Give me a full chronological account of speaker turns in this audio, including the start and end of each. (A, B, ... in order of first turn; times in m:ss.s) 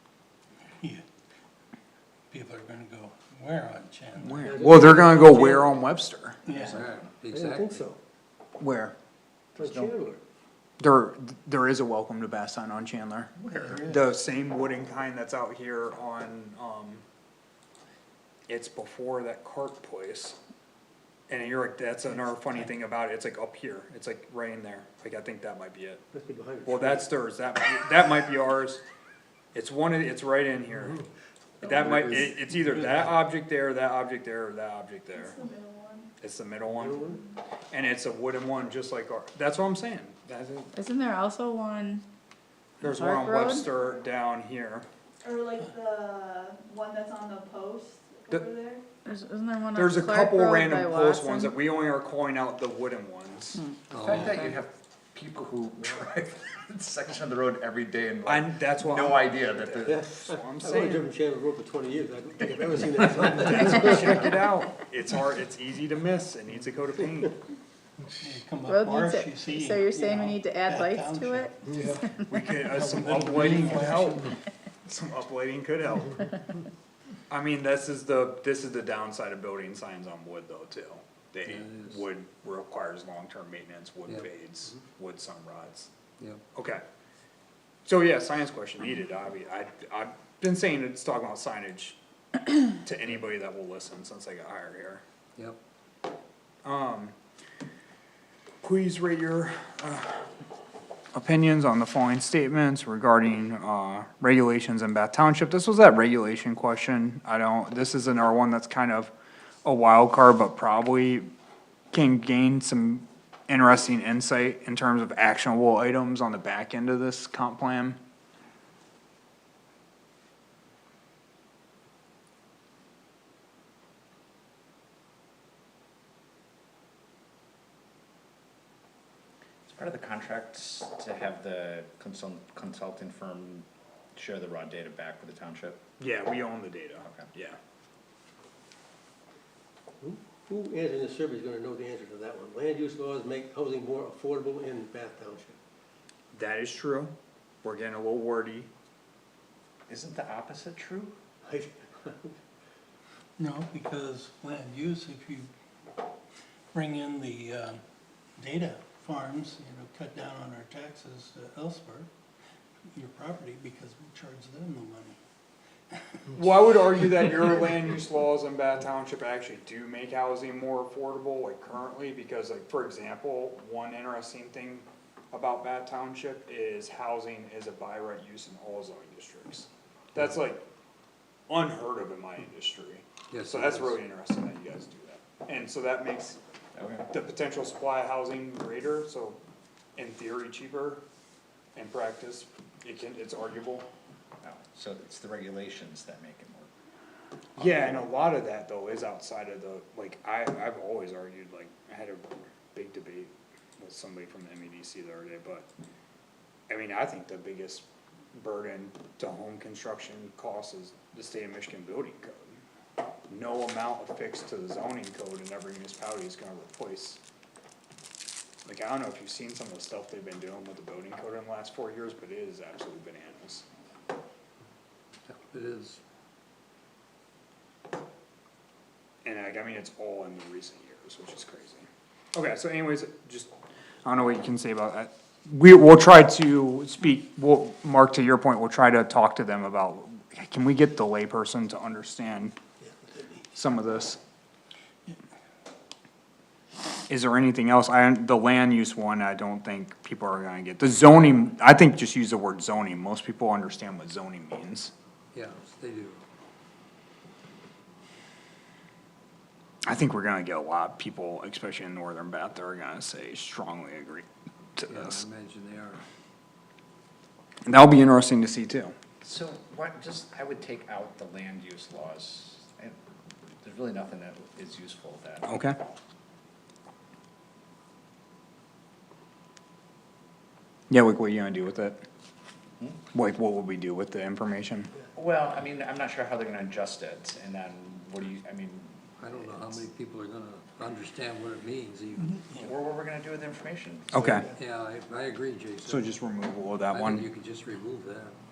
0:02.3-0:04.6 A
0:04.2-0:06.4 B
0:04.4-0:05.8 C
0:06.5-0:06.8 A
0:06.5-0:06.8 D
0:06.5-0:07.9 E
0:07.3-0:08.0 C
0:08.6-0:09.0 B
0:09.6-0:10.2 C
0:09.6-0:10.1 D
0:10.8-0:17.0 B
0:13.5-0:14.1 A
0:18.5-0:20.4 B
0:21.3-0:26.0 B
0:26.1-0:27.1 C
0:26.6-0:28.8 B
0:29.5-0:31.0 B
0:31.6-0:35.4 B
0:31.6-0:33.1 C
0:31.9-0:32.2 E
0:35.2-0:36.1 F
0:36.2-0:37.1 B
0:36.7-0:37.2 C
0:37.7-0:40.7 B
0:40.8-0:42.0 G
0:42.8-0:44.9 B
0:42.8-0:43.7 G
0:45.2-0:48.8 F
0:49.0-0:51.5 G
0:49.8-0:53.6 B
0:53.9-0:54.6 E
0:54.0-1:00.0 D
0:58.2-1:01.1 B
0:59.8-1:04.4 C
1:03.4-1:07.4 B
1:08.2-1:12.1 A
1:08.6-1:12.2 G
1:12.3-1:14.3 B
1:12.6-1:14.4 A
1:14.8-1:16.3 B
1:17.3-1:25.9 B
1:21.5-1:22.0 E
1:26.6-1:26.8 B
1:27.8-1:35.0 B
1:36.6-1:37.2 B
1:38.6-1:40.3 B
1:41.1-1:49.1 B
1:49.6-1:51.3 B
1:51.9-1:58.0 B
2:09.7-2:15.8 D
2:16.0-2:17.6 B
2:17.0-2:17.3 D
2:20.0-2:25.6 C
2:26.3-2:27.1 B
2:27.6-2:28.7 B
2:29.9-2:31.2 D
2:31.4-2:32.4 C
2:33.4-2:35.5 A
2:36.7-2:37.8 A
2:38.4-2:42.1 A
2:42.9-2:45.2 A
2:45.9-2:46.4 A
2:46.3-3:00.6 B
3:01.5-3:06.4 B
3:03.3-3:04.0 E
3:06.8-3:07.1 D
3:07.1-3:09.4 B
3:10.0-3:11.0 B
3:11.8-3:13.9 B
3:14.4-3:16.7 D
3:17.6-3:25.7 B
3:17.6-3:18.1 D
3:26.7-3:32.6 B
3:33.3-3:37.2 B
3:38.7-3:43.6 B
3:45.3-3:46.0 E
3:49.2-3:53.5 B
3:54.0-4:02.6 B
4:02.8-4:03.4 C
4:03.5-4:04.2 B
4:07.1-4:14.9 B
4:15.3-4:16.2 E
4:19.8-4:24.3 B
4:24.8-4:25.2 B
4:24.9-4:26.0 E
4:27.7-4:29.0 B
4:29.2-4:33.0 D
4:33.6-4:35.5 D
4:35.4-4:35.8 B
4:40.9-4:42.0 B
4:43.1-4:44.9 B
4:45.1-4:49.8 D
4:49.2-4:52.5 E
4:52.5-4:54.4 D
4:54.1-4:54.5 B
4:54.5-4:56.1 E
4:55.8-4:57.3 B
4:56.9-4:58.4 E